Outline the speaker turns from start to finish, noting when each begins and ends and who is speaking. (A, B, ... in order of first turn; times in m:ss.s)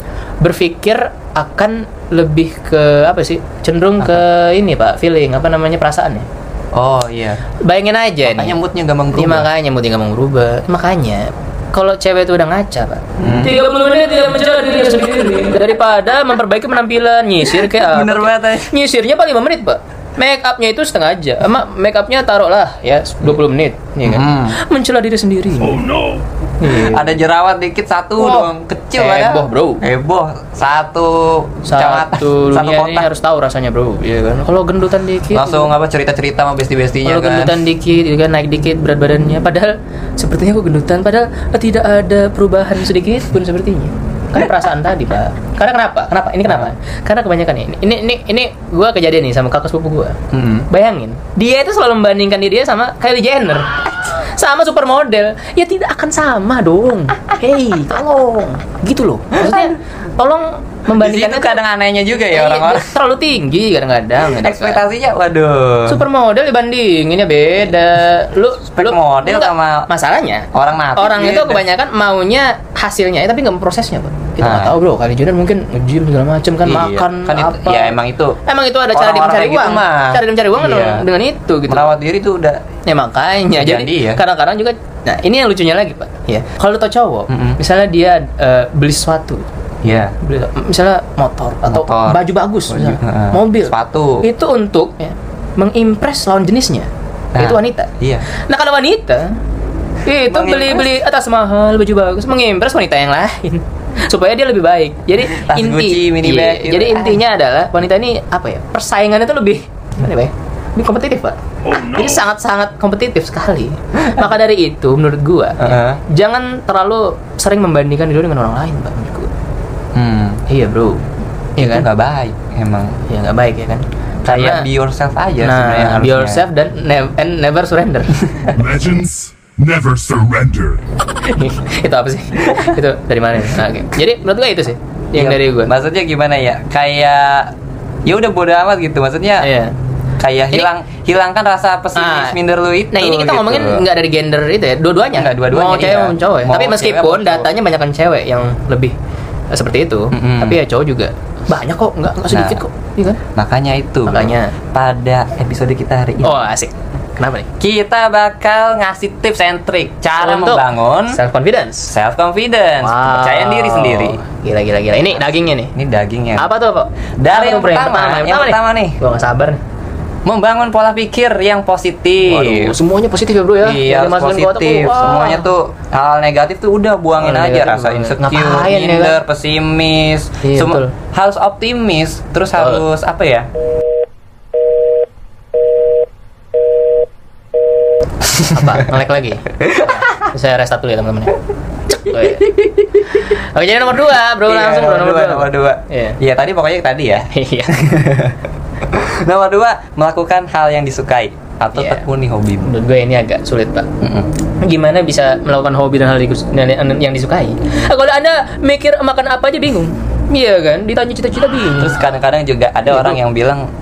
0:00.4-0:06.3 A
0:06.7-0:07.4 B
0:07.6-0:08.6 A
0:08.3-0:09.5 B
0:09.1-0:26.0 A
0:13.2-0:13.6 B
0:17.6-0:18.7 B
0:24.0-0:24.6 B
0:26.6-0:27.2 A
0:26.6-0:33.1 B
0:28.2-0:29.8 A
0:31.6-0:35.7 A
0:35.3-0:37.6 B
0:37.0-0:50.2 A
0:50.3-0:50.7 B
0:50.7-1:01.6 A
0:59.4-0:59.7 B
1:00.9-1:02.9 B
1:02.3-1:04.8 A
1:04.3-1:06.0 B
1:05.9-1:21.9 A
1:08.8-1:09.9 B
1:10.5-1:11.6 B
1:14.4-1:14.7 B
1:16.6-1:18.4 B
1:18.9-1:21.0 B
1:21.7-1:22.6 B
1:22.9-1:39.4 A
1:23.6-1:24.2 B
1:27.3-1:27.6 B
1:29.8-1:30.2 B
1:31.7-1:34.2 B
1:37.4-1:38.3 B
1:40.1-1:59.3 A
1:40.3-1:40.9 B
1:45.3-1:47.2 B
1:55.6-1:56.0 B
1:59.9-2:00.4 B
2:00.5-2:01.0 A
2:01.6-2:01.9 A
2:01.6-2:03.0 B
2:03.1-2:04.7 A
2:04.3-2:06.4 B
2:05.4-2:08.5 A
2:08.5-2:10.8 C
2:11.2-2:15.7 A
2:15.2-2:17.6 B
2:18.1-2:19.5 B
2:19.4-2:19.7 A
2:20.2-2:23.8 B
2:22.0-2:22.4 A
2:22.9-2:29.0 A
2:25.2-2:27.5 B
2:29.5-2:33.2 A
2:30.1-2:30.6 B
2:32.3-2:32.6 B
2:33.4-2:36.5 B
2:34.1-2:34.5 A
2:36.2-2:37.5 A
2:37.6-2:41.2 B
2:40.2-2:41.9 A
2:41.9-2:44.2 B
2:42.8-2:45.7 A
2:45.7-2:46.5 B
2:46.4-2:49.6 A
2:47.2-2:49.0 B
2:50.3-2:52.7 B
2:52.3-2:55.5 A
2:53.6-3:03.5 B
2:57.2-2:59.2 A
3:00.4-3:00.9 A
3:02.6-3:02.8 A
3:08.3-3:11.4 A
3:09.6-3:10.0 B
3:11.9-3:16.2 A
3:14.4-3:22.7 B
3:17.2-3:17.9 A
3:21.8-3:22.0 A
3:22.6-3:23.9 A
3:24.0-3:24.3 B
3:24.6-3:32.0 A
3:31.8-3:33.7 B
3:32.9-3:33.2 A